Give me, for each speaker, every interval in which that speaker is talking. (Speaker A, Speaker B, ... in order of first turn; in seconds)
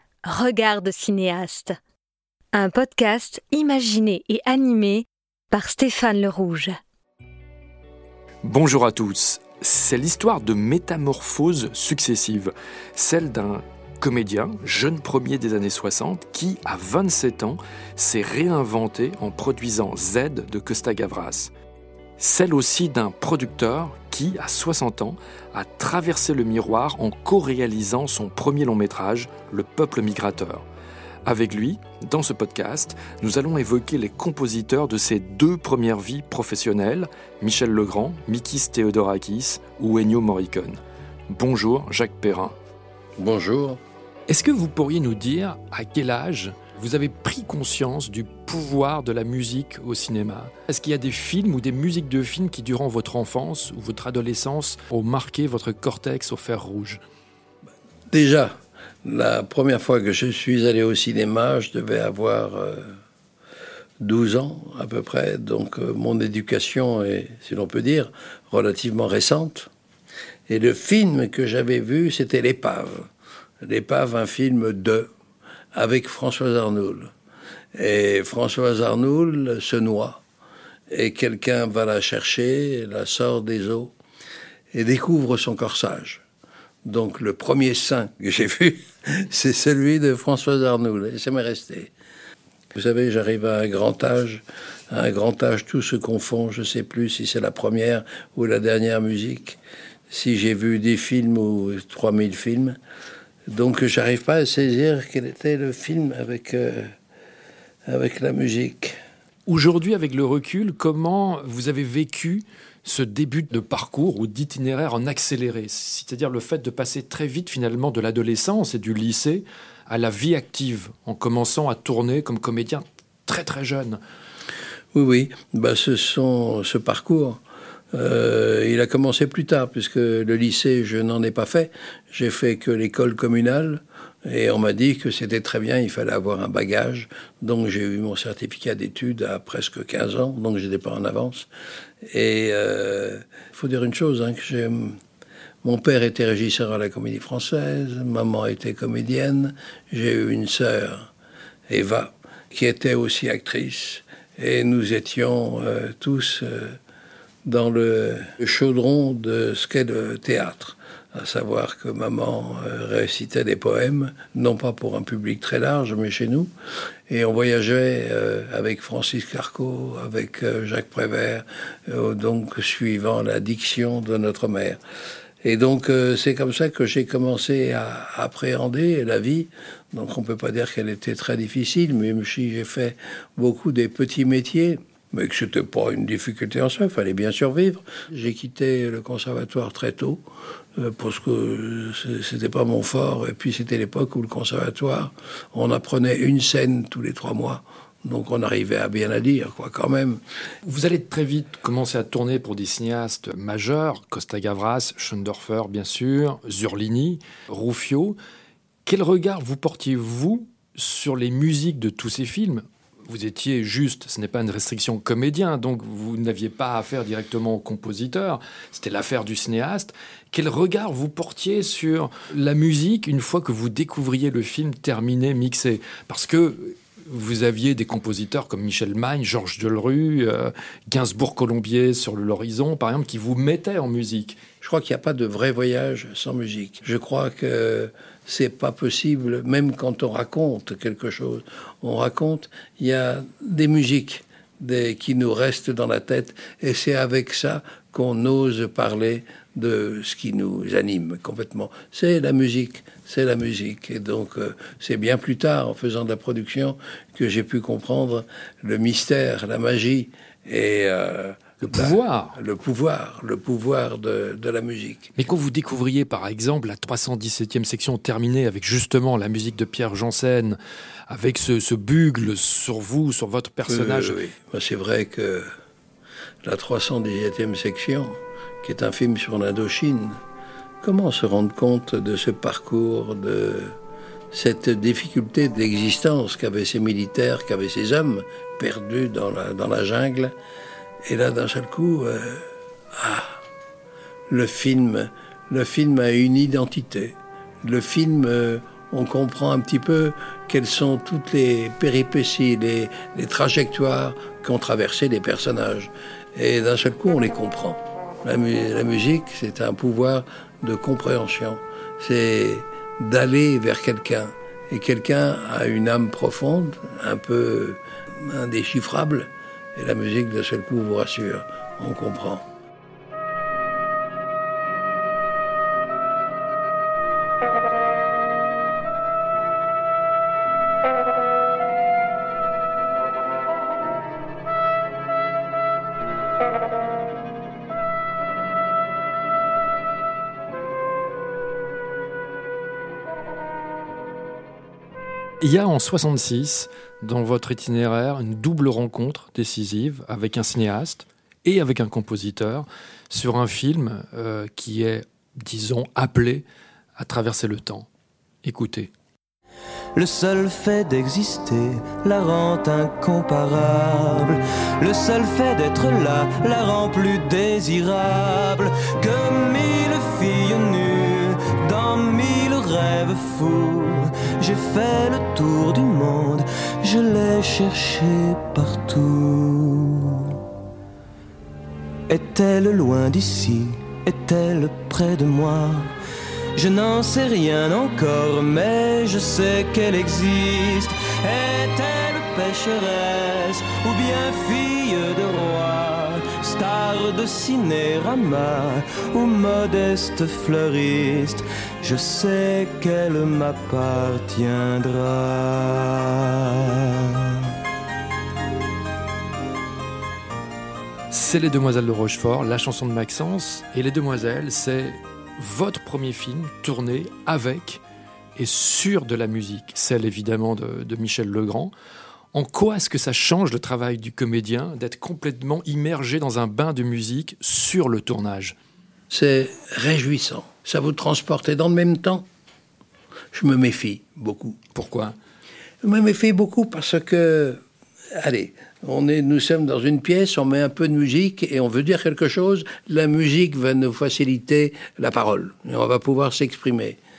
Speaker A: 0.3-1.8, 2.5-6.8
Speaker B: 8.4-21.5, 22.2-30.7, 31.2-42.5, 44.3-57.0, 109.5-124.0, 200.7-208.2, 208.9-234.4, 261.6-262.4, 265.2-274.2, 345.4-356.4, 357.0-357.9, 358.4-358.9, 411.1-417.8, 418.4-421.7, 422.3-428.6, 434.8-435.2
Speaker C: 43.2-43.8, 58.1-62.9, 64.0-69.7, 70.5-73.1, 73.6-75.1, 75.7-77.1, 77.8-80.2, 80.9-83.9, 84.7-86.2, 86.8-91.9, 92.7-99.6, 100.1-102.8, 103.5-106.9, 107.9-109.0, 124.9-127.4, 127.9-141.5, 142.1-145.0, 145.6-151.1, 151.7-156.8, 157.4-166.5, 167.1-174.8, 175.4-190.2, 190.8-200.2, 234.6-265.1, 273.7-275.5, 276.4-280.2, 280.8-283.8, 284.3-290.4, 291.1-293.4, 294.3-322.5, 429.1-432.3, 433.3-434.6, 435.8-437.6, 438.1-447.0
Speaker D: 360.0-380.4, 382.1-385.9, 386.6-407.5